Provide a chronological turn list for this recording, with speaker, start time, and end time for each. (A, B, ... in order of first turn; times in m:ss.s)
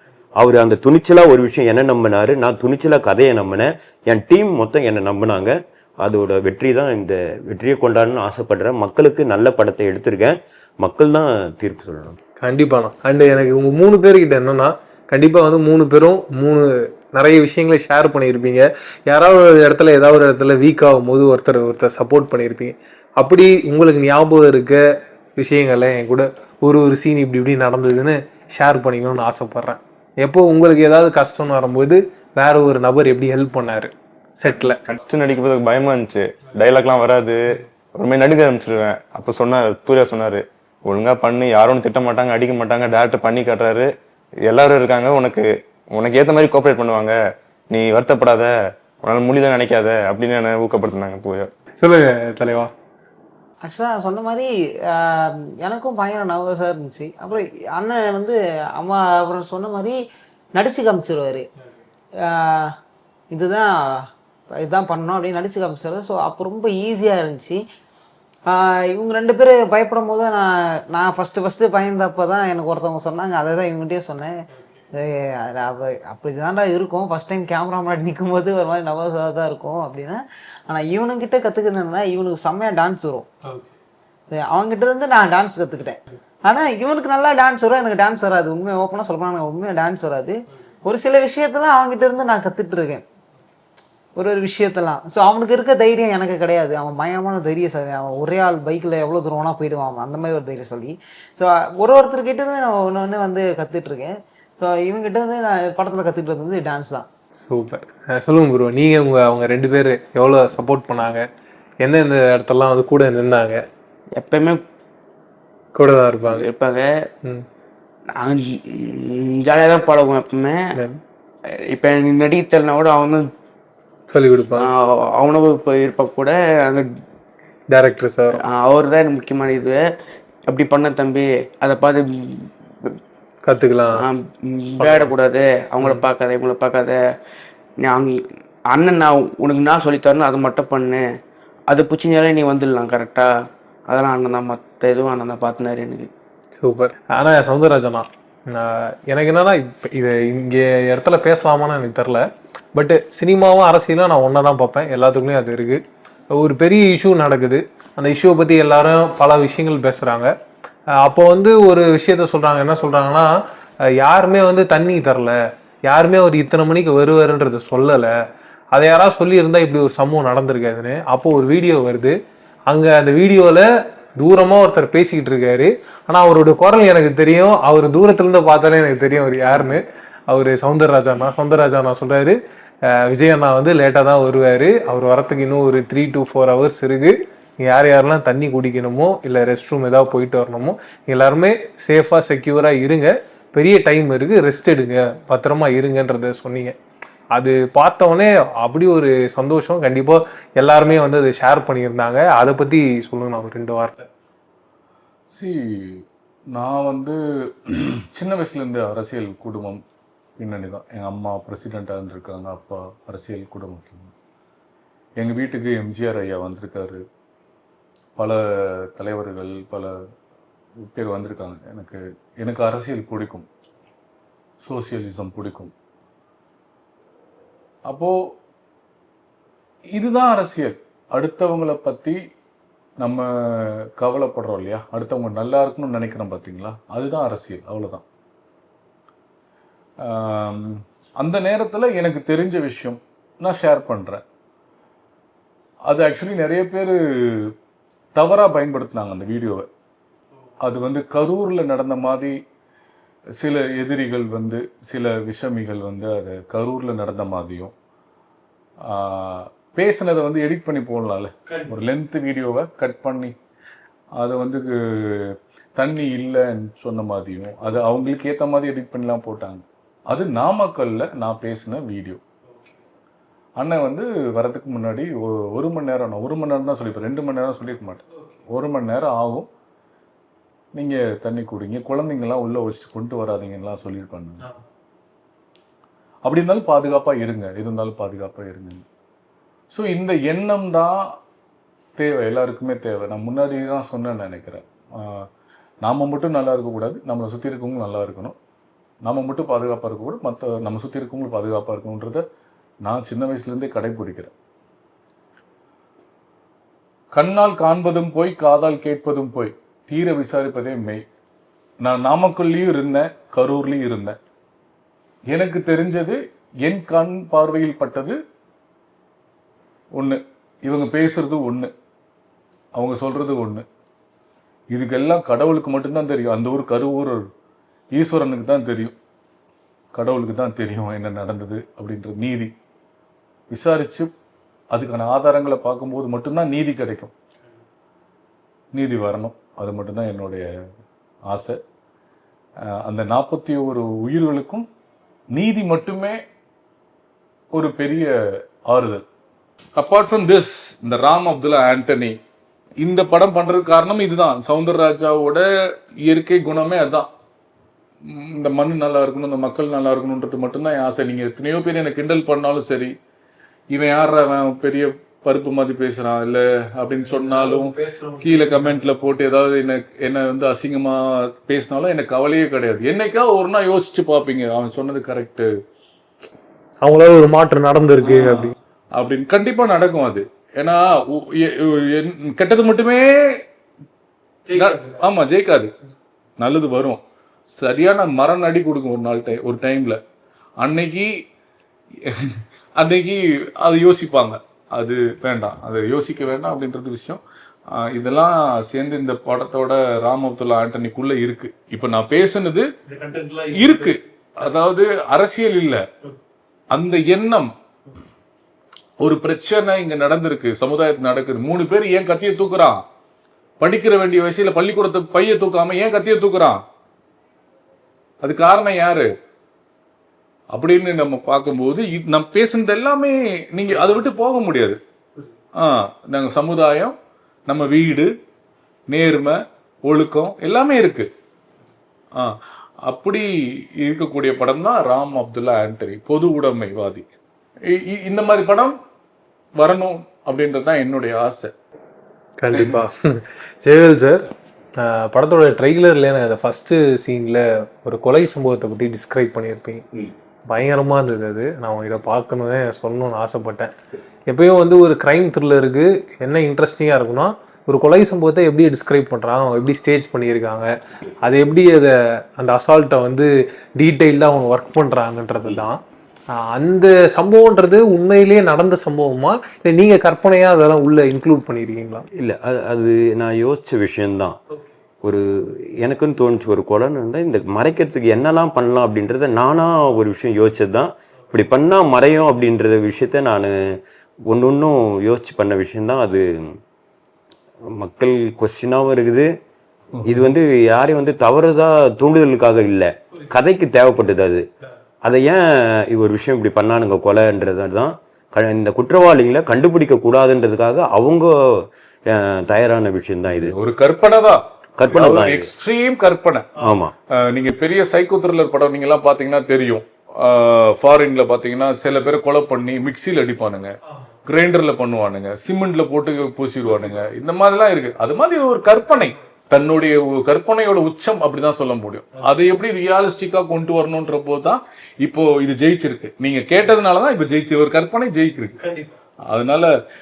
0:00.4-0:12.2 A
0:12.4-0:24.8 B
0:25.4-0:34.8 B
0:34.8-0:43.9 C
0:44.5-0:47.1 C
0:47.7-0:48.5 C
0:49.0-0:51.5 C
0:51.8-0:52.7 B
0:53.6-1:00.0 D
1:00.6-1:01.4 D
1:02.2-1:02.7 D
1:03.3-1:04.0 D
1:04.6-1:07.6 D
1:08.5-1:14.3 D
1:15.0-1:23.3 D
1:24.3-1:33.0 D
1:34.2-1:47.0 D
1:47.4-1:51.2 B
1:51.8-1:53.6 B
1:54.2-1:54.6 E
1:55.7-1:56.4 B
1:56.3-1:56.9 E
1:58.2-2:00.7 E
2:01.7-2:03.2 E
2:04.1-2:04.7 B
2:04.6-2:06.8 E
2:07.7-2:08.4 B
2:08.4-2:09.8 E
2:10.5-2:13.0 E
2:13.4-2:14.0 B
2:14.0-2:17.0 E
2:17.8-2:18.2 E
2:18.7-2:21.0 E
2:21.7-2:23.3 E
2:23.9-2:26.1 E
2:26.6-2:35.8 B
2:36.3-2:40.3 B
2:41.0-2:43.3 B
2:44.0-2:48.1 B
2:48.7-2:52.2 B
2:52.7-2:53.7 B
2:54.2-3:16.7 B
3:17.3-3:24.1 B
3:25.3-3:29.8 F
3:30.4-3:34.1 F
3:35.2-3:37.0 F
3:38.2-3:39.9 F
3:40.8-3:43.5 F
3:44.6-3:45.7 F
3:47.9-3:48.2 F
3:49.9-3:52.2 F
3:53.0-3:58.0 F
4:00.0-4:04.2 F
4:05.8-4:07.5 F
4:08.1-4:09.7 F
4:10.6-4:12.4 F
4:13.4-4:17.7 F
4:18.8-4:23.3 F
4:24.2-4:32.2 F
4:33.6-4:39.5 F
4:40.7-4:44.4 F
4:46.2-4:48.8 F
4:49.7-4:51.2 F
4:52.0-4:55.3 F
4:55.8-4:58.4 F
4:59.0-5:02.2 F
5:02.8-5:04.3 F
5:07.1-5:11.0 F
5:11.8-5:14.2 F
5:15.3-5:18.2 F
5:20.0-5:21.7 F
5:22.7-5:23.6 F
5:24.7-5:27.2 F
5:27.9-5:29.0 F
5:29.9-5:32.5 F
5:33.5-5:34.1 F
5:34.7-5:37.1 F
5:38.7-5:40.5 F
5:41.3-5:41.6 F
5:42.6-5:44.6 F
5:45.3-5:46.2 F
5:47.5-5:49.0 F
5:49.8-5:52.2 F
5:52.8-5:55.5 F
5:56.0-5:57.1 F
5:58.0-6:02.9 F
6:03.7-6:15.5 F
6:07.1-6:09.1 B
6:16.8-6:18.6 B
6:18.0-6:23.4 F
6:24.5-6:25.7 F
6:26.4-6:30.0 F
6:30.6-6:31.1 F
6:32.0-6:42.7 F
6:43.1-6:43.4 B
6:43.4-6:45.8 F
6:46.7-6:47.5 F
6:49.0-6:52.8 F
6:53.6-6:56.6 F
6:58.2-6:59.1 F
7:00.5-7:04.8 F
7:05.6-7:07.0 F
7:07.5-7:08.1 F
7:08.9-7:11.1 F
7:12.2-7:17.0 F
7:17.7-7:18.8 F
7:19.6-7:21.5 F
7:22.4-7:29.8 B
7:30.5-7:33.7 B
7:34.3-7:40.7 B
7:41.2-7:45.8 B
7:46.3-7:52.0 B
7:52.1-7:54.4 A
7:55.0-8:06.6 A
8:07.6-8:09.3 A
8:10.0-8:10.2 F
8:10.0-8:14.4 A
8:15.0-8:23.5 A
8:23.4-8:33.7 F
8:24.8-8:25.5 A
8:26.6-8:26.9 A
8:34.2-8:48.6 F
8:49.3-8:49.7 F